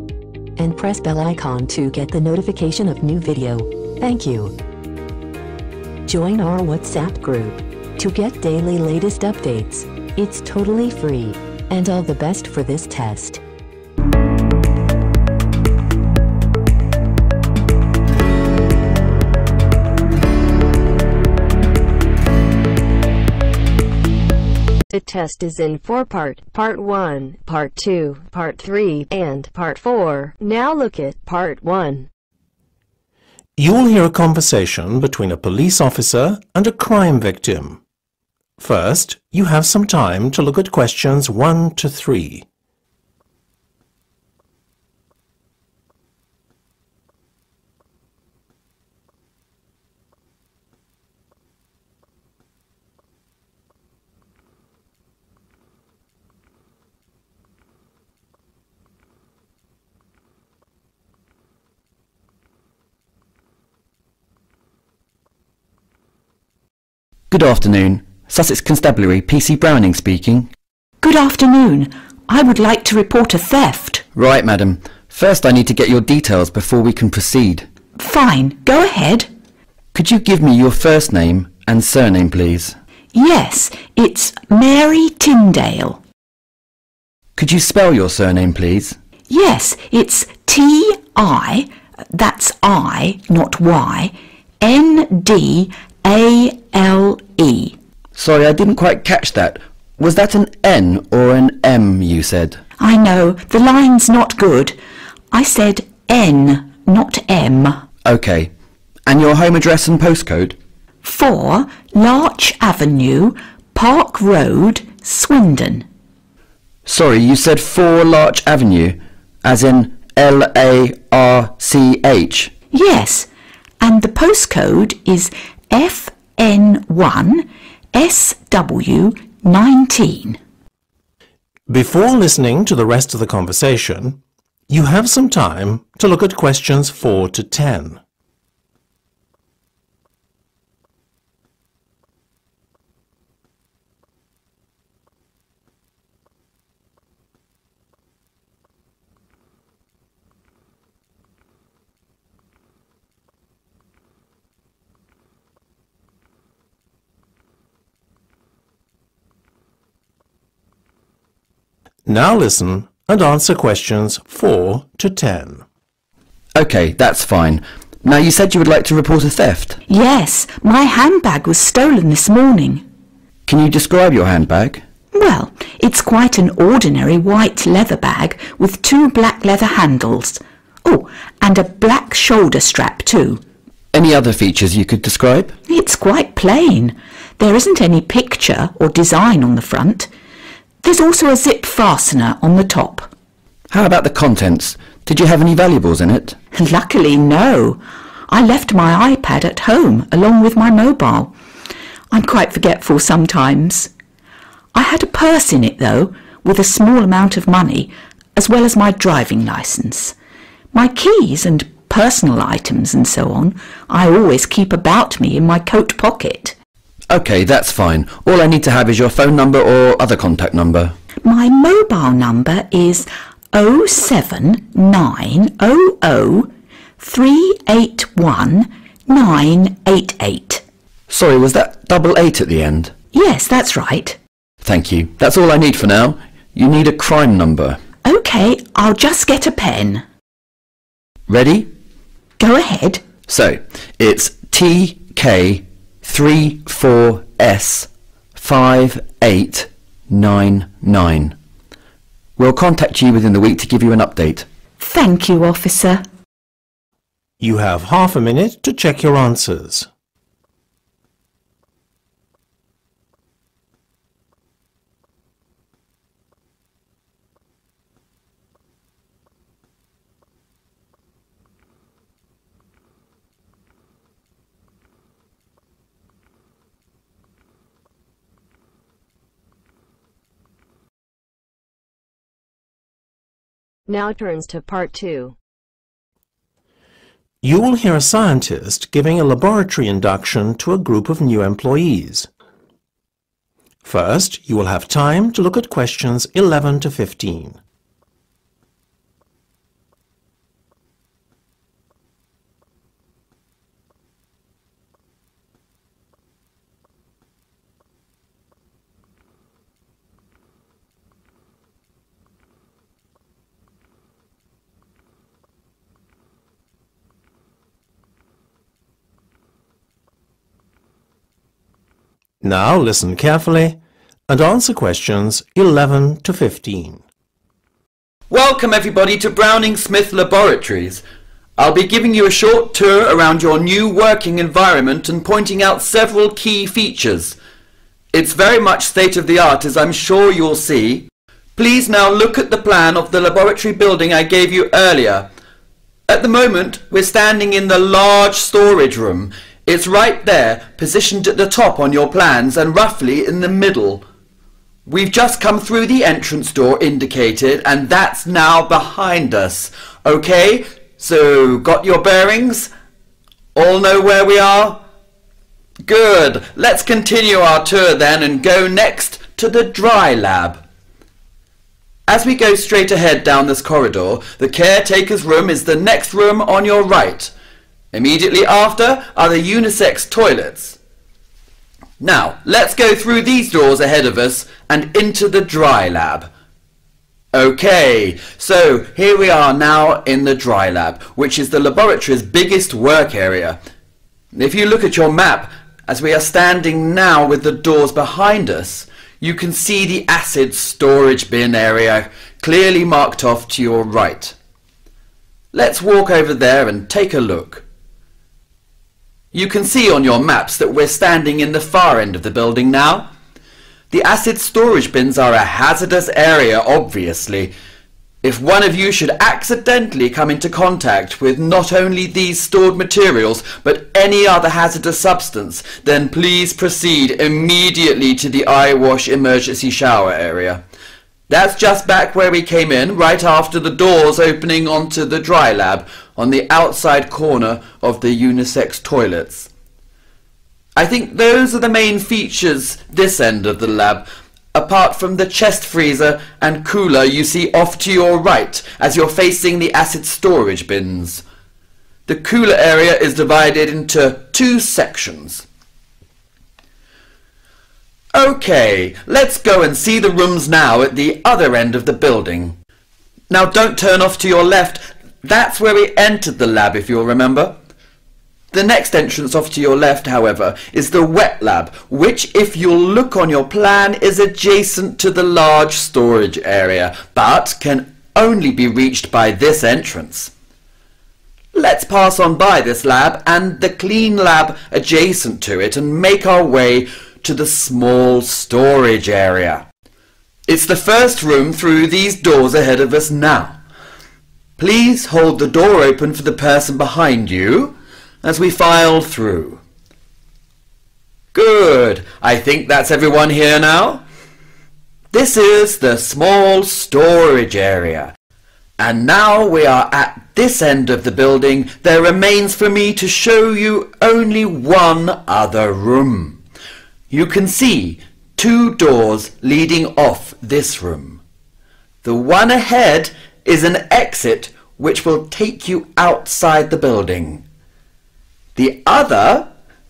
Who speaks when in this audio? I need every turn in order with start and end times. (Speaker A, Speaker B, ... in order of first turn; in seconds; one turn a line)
Speaker A: 0.6-4.5
Speaker A: 6.0-13.4
Speaker B: 24.9-32.1
Speaker C: 33.6-37.8
Speaker C: 38.6-42.5
Speaker D: 67.3-70.5
Speaker E: 71.0-74.0
Speaker D: 74.1-77.7
Speaker E: 78.0-79.3
Speaker D: 79.9-82.8
Speaker E: 83.1-86.0
Speaker D: 87.3-89.0
Speaker E: 89.3-97.8
Speaker D: 98.1-102.6
Speaker E: 102.8-104.8
Speaker E: 105.3-107.8
Speaker D: 108.0-108.5
Speaker D: 109.0-110.6
Speaker E: 111.0-115.8
Speaker D: 116.8-122.5
Speaker E: 122.7-123.3
Speaker E: 123.8-130.4
Speaker C: 131.7-138.0
Speaker C: 162.1-165.6
Speaker D: 166.5-169.8
Speaker E: 169.9-172.8
Speaker D: 173.5-174.8
Speaker E: 175.1-183.4
Speaker D: 183.9-185.5
Speaker E: 185.7-190.1
Speaker E: 190.8-193.1
Speaker D: 193.7-196.4
Speaker E: 196.5-201.3
Speaker E: 202.1-203.9
Speaker E: 204.7-210.1
Speaker E: 210.7-216.5
Speaker D: 217.1-220.9
Speaker E: 221.2-230.6
Speaker D: 231.1-232.9
Speaker E: 233.1-234.2
Speaker D: 234.6-237.8
Speaker E: 238.0-240.0
Speaker D: 241.3-241.7
Speaker E: 242.4-243.0
Speaker D: 243.3-251.3
Speaker D: 252.4-254.4
Speaker E: 254.8-256.0
Speaker C: 257.4-259.9
Speaker B: 283.9-285.3
Speaker C: 287.4-292.3
Speaker C: 293.8-297.6
Speaker C: 322.4-327.0
Speaker D: 328.3-331.0
Speaker D: 331.6-337.4
Speaker D: 338.1-345.3
Speaker D: 346.1-354.0
Speaker D: 354.9-362.7
Speaker D: 363.5-364.8
Speaker D: 365.8-370.6
Speaker D: 372.1-377.3
Speaker D: 377.9-380.8
Speaker D: 382.0-386.3
Speaker D: 387.3-393.6
Speaker D: 394.3-404.4
Speaker D: 405.5-407.6
Speaker D: 409.3-413.1
Speaker D: 413.9-417.5
Speaker D: 418.2-430.6
Speaker D: 431.3-439.5
Speaker D: 440.8-451.2
Speaker D: 452.1-455.4
Speaker D: 458.1-462.6
Speaker D: 463.3-467.6
Speaker D: 468.5-480.3
Speaker D: 481.5-489.6
Speaker D: 490.5-493.6
Speaker D: 494.6-499.6
Speaker D: 501.3-504.0
Speaker D: 505.1-508.1
Speaker D: 508.8-516.4
Speaker D: 517.1-521.2
Speaker D: 522.0-527.4
Speaker D: 528.5-529.5